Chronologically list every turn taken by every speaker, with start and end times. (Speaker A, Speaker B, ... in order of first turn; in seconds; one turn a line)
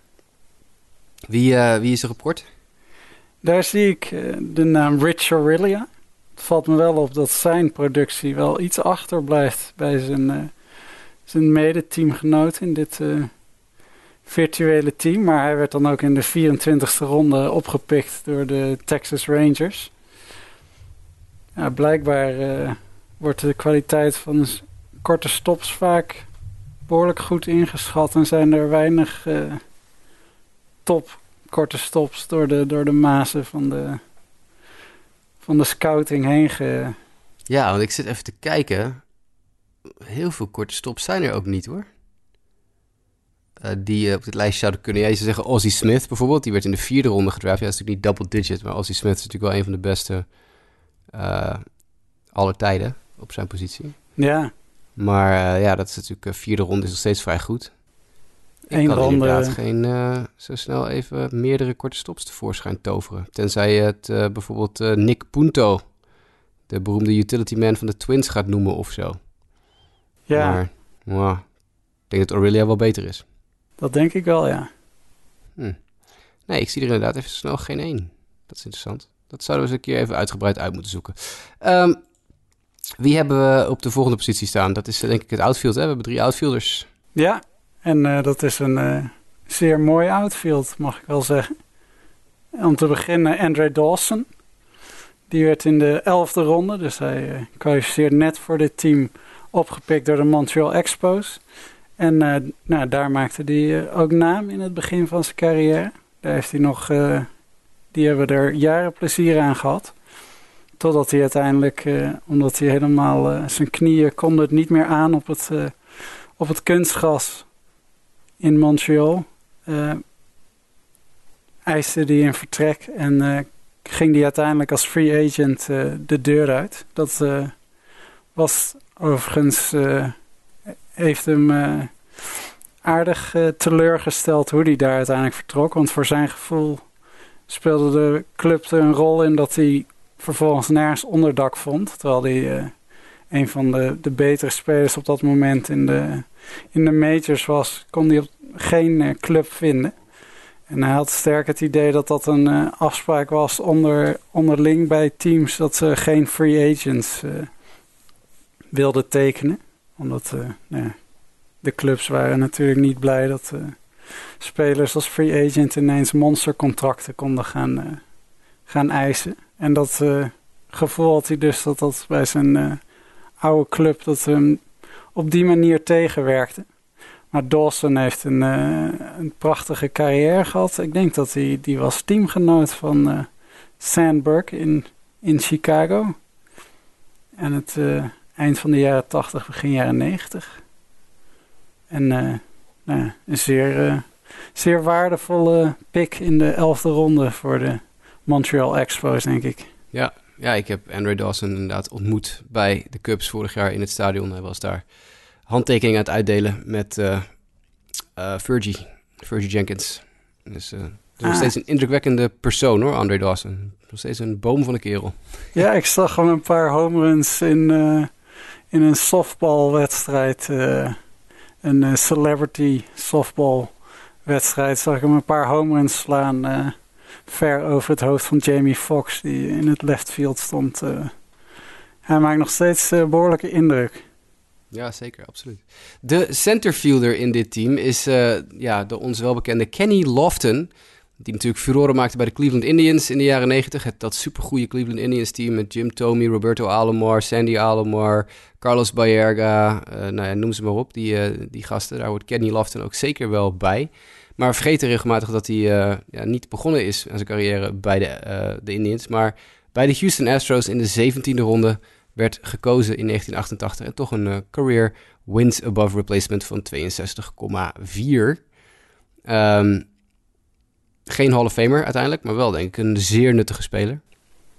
Speaker A: 1.3-2.4
Speaker B: 3.4-10.5
Speaker B: 11.3-13.3
Speaker B: 14.2-19.9
Speaker B: 21.6-26.3
Speaker B: 26.9-29.6
Speaker B: 30.9-34.0
Speaker B: 35.4-37.0
Speaker A: 37.5-39.0
Speaker A: 40.0-41.9
Speaker A: 43.6-50.4
Speaker A: 51.1-51.7
Speaker A: 52.3-54.0
Speaker B: 54.2-54.5
Speaker A: 55.0-57.7
Speaker A: 58.7-65.9
Speaker B: 58.7-59.6
Speaker A: 66.7-69.2
Speaker B: 70.3-70.6
Speaker A: 70.3-71.5
Speaker A: 72.1-73.2
Speaker B: 73.8-74.7
Speaker A: 76.5-82.0
Speaker A: 83.0-86.9
Speaker B: 87.1-91.5
Speaker B: 92.6-94.3
Speaker B: 95.3-101.4
Speaker B: 102.0-107.3
Speaker B: 107.9-109.9
Speaker B: 110.8-115.8
Speaker B: 116.4-117.5
Speaker B: 118.4-120.0
Speaker B: 121.7-127.5
Speaker B: 128.3-130.2
Speaker B: 131.0-136.8
Speaker B: 137.5-142.7
Speaker B: 143.3-149.9
Speaker B: 150.7-157.5
Speaker B: 158.7-161.0
Speaker B: 161.6-163.8
Speaker B: 164.4-168.0
Speaker B: 168.7-172.8
Speaker B: 173.4-174.6
Speaker B: 175.1-176.7
Speaker B: 177.3-186.2
Speaker B: 187.4-190.6
Speaker B: 191.9-199.7
Speaker A: 199.9-204.9
Speaker A: 205.5-207.3
Speaker A: 208.2-215.2
Speaker B: 211.2-211.5
Speaker B: 215.6-218.1
Speaker B: 218.7-221.0
Speaker B: 221.6-223.7
Speaker B: 224.3-226.8
Speaker B: 227.3-231.1
Speaker B: 232.1-234.0
Speaker A: 234.7-268.4
Speaker A: 269.3-269.9
Speaker A: 271.1-274.0